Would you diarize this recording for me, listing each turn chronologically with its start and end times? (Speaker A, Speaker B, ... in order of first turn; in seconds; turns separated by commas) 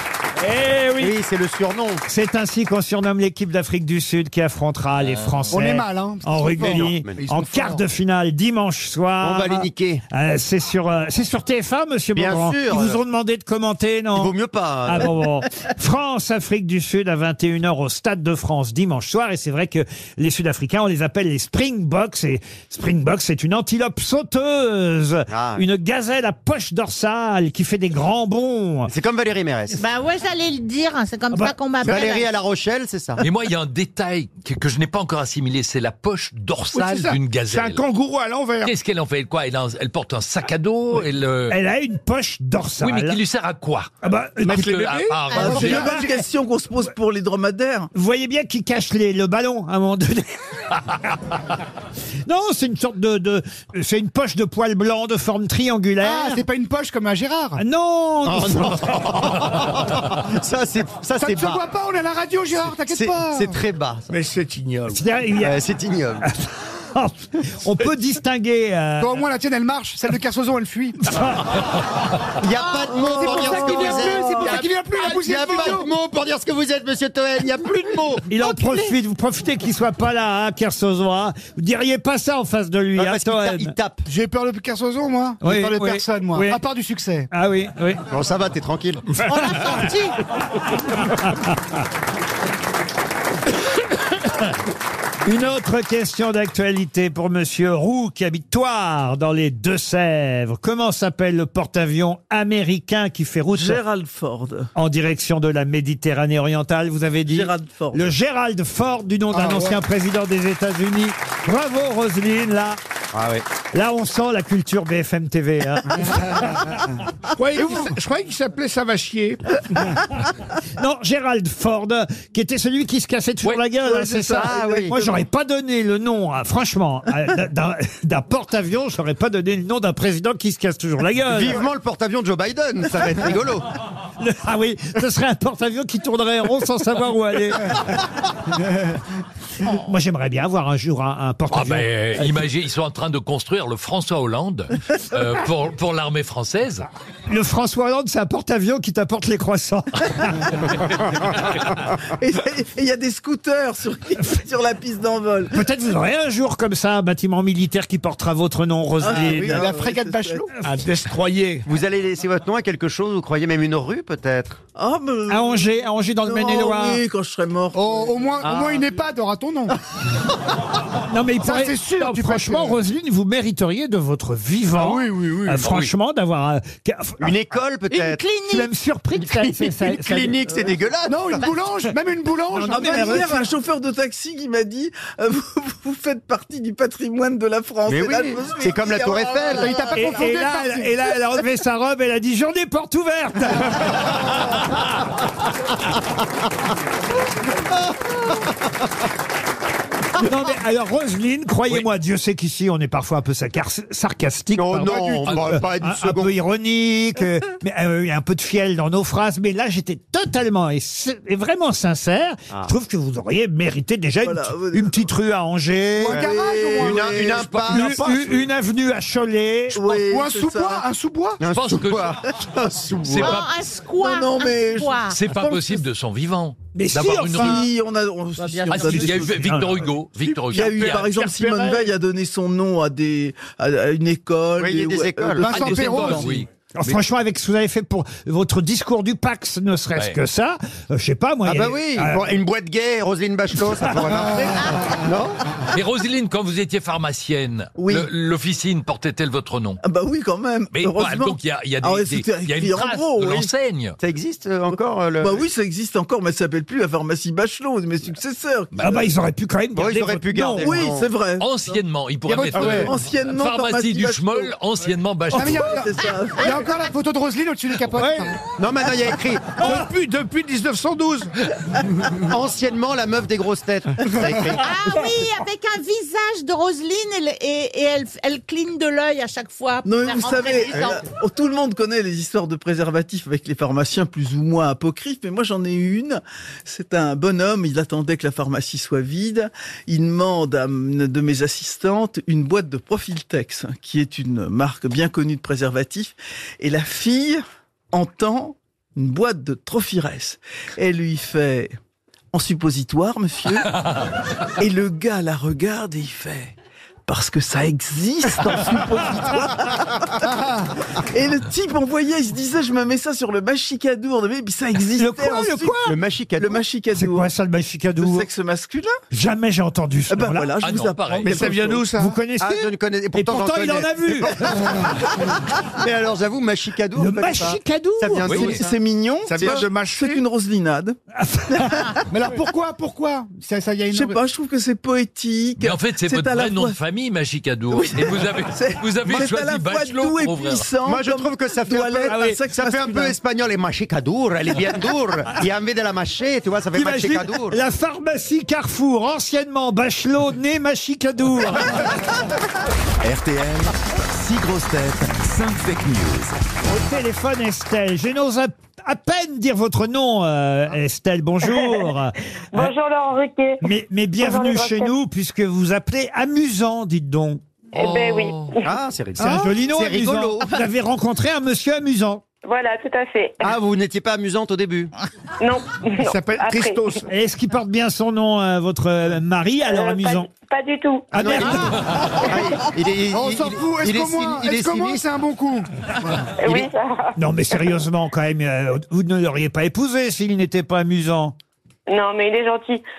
Speaker A: 0.4-1.1, Speaker B: 1.0-2.0, Speaker A: 2.1-14.3, Speaker C: 5.0-5.4, Speaker D: 5.5-7.8, Speaker B: 6.6-7.2, Speaker B: 9.2-10.0, Speaker B: 12.1-13.0, Speaker B: 14.1-15.1, Speaker A: 14.8-28.9, Speaker B: 25.3-25.6, Speaker B: 28.9-29.8, Speaker E: 29.7-32.3, Speaker B: 31.8-33.2, Speaker C: 33.2-37.8, Speaker F: 36.7-38.7, Speaker C: 38.6-41.5, Speaker A: 41.5-43.1, Speaker C: 42.8-43.9, Speaker A: 44.0-44.8, Speaker C: 44.5-46.0, Speaker F: 44.5-45.3, Speaker G: 45.3-47.9, Speaker A: 45.3-46.1, Speaker A: 47.9-50.4, Speaker A: 52.3-56.4, Speaker D: 56.0-57.6, Speaker A: 57.6-59.0, Speaker B: 58.2-61.6, Speaker D: 61.2-63.5, Speaker B: 62.9-64.1, Speaker F: 64.1-65.0, Speaker A: 64.9-65.6, Speaker B: 65.4-66.3, Speaker A: 66.3-69.2, Speaker D: 69.0-71.1, Speaker A: 71.1-71.4, Speaker B: 72.4-78.2, Speaker G: 73.0-74.7, Speaker D: 73.0-75.9, Speaker A: 78.3-83.7, Speaker E: 78.4-78.9, Speaker B: 83.0-84.1, Speaker D: 84.1-87.3, Speaker A: 85.4-86.6, Speaker A: 87.3-88.0, Speaker B: 88.1-89.0, Speaker E: 89.2-90.2, Speaker A: 91.1-91.5, Speaker A: 95.3-103.8, Speaker G: 103.5-104.7, Speaker A: 104.8-112.8, Speaker G: 107.3-108.1, Speaker D: 109.3-109.8, Speaker B: 113.1-113.4, Speaker A: 113.7-116.7, Speaker F: 117.4-119.9, Speaker A: 120.8-131.6, Speaker G: 123.8-125.1, Speaker B: 124.4-125.0, Speaker B: 131.3-133.7, Speaker A: 134.2-138.0, Speaker A: 139.6-141.9, Speaker C: 141.5-146.9, Speaker A: 147.3-150.7, Speaker G: 152.2-155.6, Speaker A: 155.5-159.6, Speaker G: 159.0-160.5, Speaker D: 159.4-160.5, Speaker F: 160.6-161.7, Speaker B: 161.7-164.6, Speaker G: 164.8-168.6, Speaker A: 165.3-167.0, Speaker D: 167.7-169.8, Speaker B: 168.4-168.9, Speaker A: 171.1-177.4, Speaker D: 171.4-172.8, Speaker D: 174.8-175.7, Speaker B: 177.2-178.2, Speaker E: 177.9-178.7, Speaker A: 178.5-180.4, Speaker B: 179.2-181.5, Speaker D: 181.1-183.3, Speaker A: 182.5-183.5, Speaker G: 182.7-189.9, Speaker B: 187.9-189.9, Speaker D: 189.5-191.0, Speaker A: 189.9-194.0, Speaker A: 200.2-216.2, Speaker B: 204.6-206.3, Speaker C: 205.3-205.6, Speaker G: 214.2-215.1, Speaker D: 216.0-217.4, Speaker B: 216.0-218.4, Speaker G: 216.1-217.4, Speaker C: 217.3-218.1, Speaker A: 217.7-219.9, Speaker G: 219.7-220.9, Speaker D: 219.9-221.4, Speaker B: 221.4-223.4, Speaker C: 221.5-222.3, Speaker C: 223.0-223.5, Speaker E: 223.2-225.2, Speaker G: 224.0-225.6, Speaker C: 225.1-227.7, Speaker A: 226.7-227.7, Speaker G: 227.3-229.6, Speaker C: 228.7-231.1, Speaker A: 228.8-229.7, Speaker F: 230.3-231.9, Speaker G: 230.5-236.2, Speaker B: 234.6-235.8, Speaker D: 235.4-236.4, Speaker C: 235.5-236.5, Speaker A: 236.8-242.2, Speaker B: 241.4-245.4, Speaker A: 243.8-244.1, Speaker C: 245.7-249.8, Speaker G: 247.8-248.1, Speaker G: 249.8-253.5, Speaker C: 250.7-254.0, Speaker B: 254.0-255.4, Speaker G: 255.2-259.1, Speaker A: 258.8-260.7, Speaker B: 259.8-261.1, Speaker G: 260.6-261.8, Speaker C: 261.4-265.8, Speaker D: 262.3-262.8, Speaker F: 262.5-262.9, Speaker G: 262.6-264.5, Speaker G: 265.3-266.7, Speaker D: 265.3-265.9, Speaker D: 266.4-268.4, Speaker F: 267.9-268.4, Speaker B: 268.6-269.7, Speaker F: 269.6-271.3, Speaker B: 272.2-274.6, Speaker E: 274.6-281.1, Speaker G: 279.9-301.8, Speaker G: 302.3-303.7, Speaker G: 304.6-306.5, Speaker G: 307.1-310.3, Speaker G: 311.1-315.8, Speaker A: 315.0-315.9, Speaker B: 315.9-316.6, Speaker G: 316.4-317.3, Speaker A: 316.9-318.3, Speaker G: 318.0-319.0, Speaker A: 319.1-320.5, Speaker G: 320.1-321.9, Speaker C: 320.6-321.4, Speaker F: 321.3-322.1, Speaker D: 321.3-321.9, Speaker A: 321.9-324.8, Speaker B: 322.4-324.9, Speaker B: 325.8-328.7, Speaker A: 327.0-328.5, Speaker C: 328.3-328.6, Speaker G: 328.3-331.0, Speaker F: 329.3-330.1, Speaker A: 331.1-331.9, Speaker G: 331.5-331.8, Speaker D: 332.1-334.2, Speaker G: 333.9-336.8, Speaker C: 335.6-340.7, Speaker G: 337.7-343.1, Speaker B: 340.9-347.6, Speaker A: 342.1-342.4, Speaker A: 346.7-351.9, Speaker H: 353.0-356.4, Speaker A: 356.7-362.7, Speaker I: 362.5-363.6, Speaker A: 363.6-367.4, Speaker I: 364.2-364.9, Speaker I: 367.7-368.7, Speaker C: 367.8-368.5, Speaker B: 368.6-370.5, Speaker A: 369.2-372.2, Speaker I: 372.4-373.5, Speaker B: 373.4-374.9, Speaker I: 375.4-376.8, Speaker F: 376.2-377.0, Speaker A: 377.1-380.3, Speaker I: 379.6-381.6, Speaker A: 381.1-381.8, Speaker B: 381.1-385.0, Speaker D: 383.1-386.3, Speaker I: 386.4-387.1, Speaker B: 386.4-386.7, Speaker A: 387.1-391.3, Speaker I: 391.9-392.8